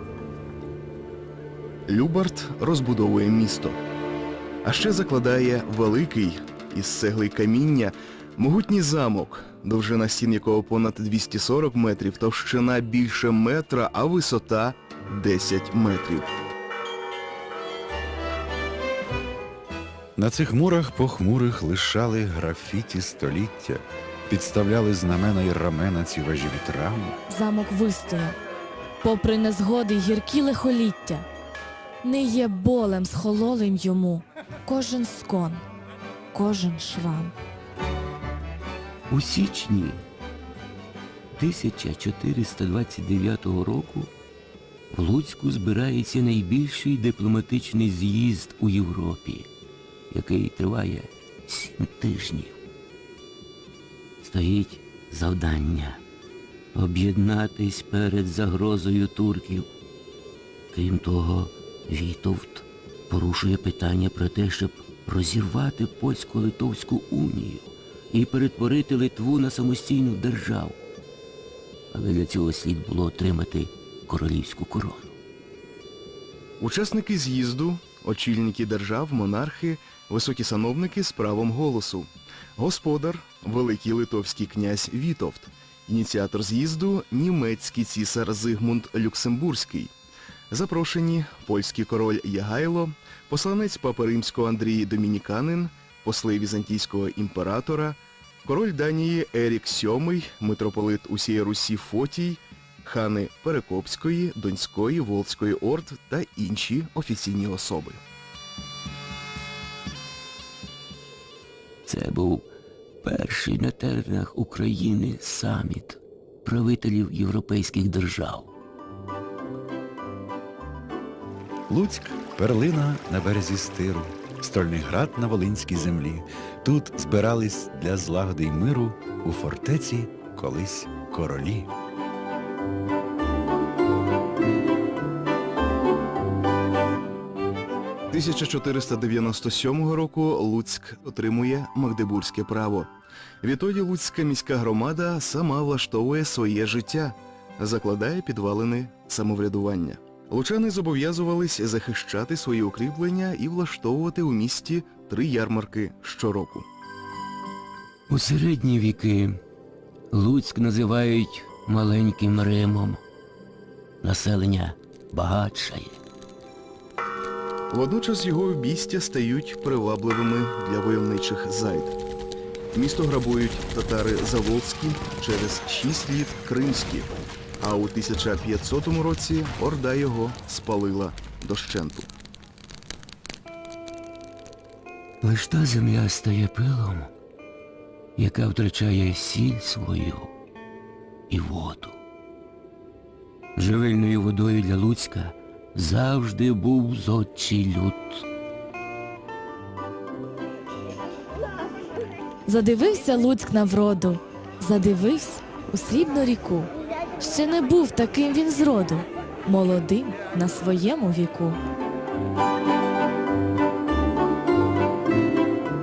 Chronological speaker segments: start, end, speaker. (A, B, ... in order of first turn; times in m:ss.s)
0:01.9-0:03.8 A
0:04.6-0:16.3 A
0:20.2-0:27.2 B
0:27.3-0:28.4 C
0:29.0-0:31.2 C
0:32.0-0:35.6 C
0:36.3-0:37.4 C
0:39.1-0:40.0 D
0:41.4-0:44.1 D
0:44.9-0:49.5 D
0:50.1-0:52.6 D
0:54.2-0:56.0 D
0:56.7-0:59.7 D
1:00.7-1:10.8 D
1:11.9-1:15.1 D
1:16.6-1:29.9 A
1:30.5-1:48.0 A
1:51.8-1:52.5 D
1:53.0-1:58.5 D
2:01.7-2:11.7 B
2:18.1-2:22.9 A
2:23.4-2:36.7 A
2:38.1-2:39.4 D
2:40.1-2:43.0 D
2:44.0-2:46.0 D
2:47.7-2:51.9 A
2:52.7-3:02.1 A
3:05.2-3:07.1 D
3:08.2-3:10.3 D
3:11.3-3:12.0 D
3:13.6-3:18.2 D
3:22.4-3:31.6 C